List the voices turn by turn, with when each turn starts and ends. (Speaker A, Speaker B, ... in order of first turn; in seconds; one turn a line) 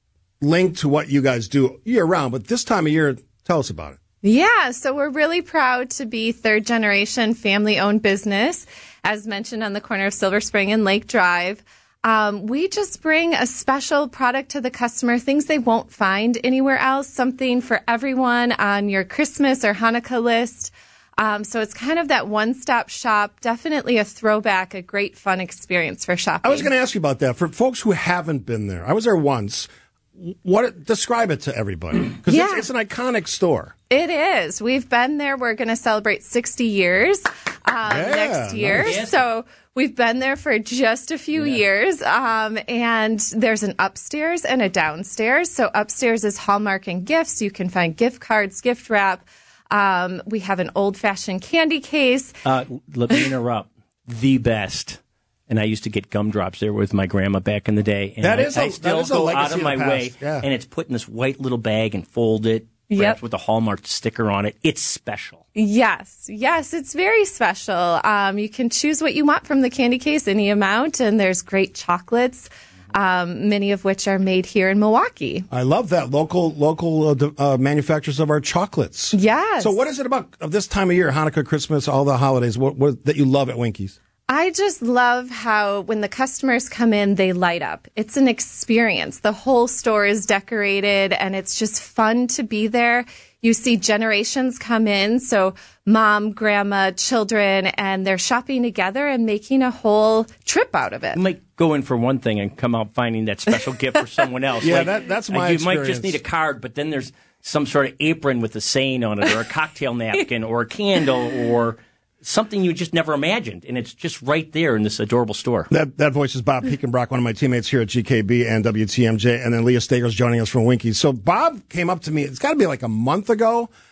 Speaker A: 0.4-4.0
Speaker B: 4.2-26.7
Speaker A: 26.4-33.7
Speaker B: 32.3-32.7
Speaker B: 33.9-52.4
Speaker A: 37.8-38.9
Speaker C: 38.7-39.2
Speaker C: 41.3-41.6
Speaker C: 52.4-65.4
Speaker A: 58.2-60.5
Speaker B: 62.9-63.2
Speaker B: 65.5-75.5
Speaker A: 75.5-84.0
Speaker B: 79.1-79.8
Speaker B: 84.3-101.2
Speaker C: 101.1-115.7
Speaker A: 104.6-106.2
Speaker A: 115.7-123.7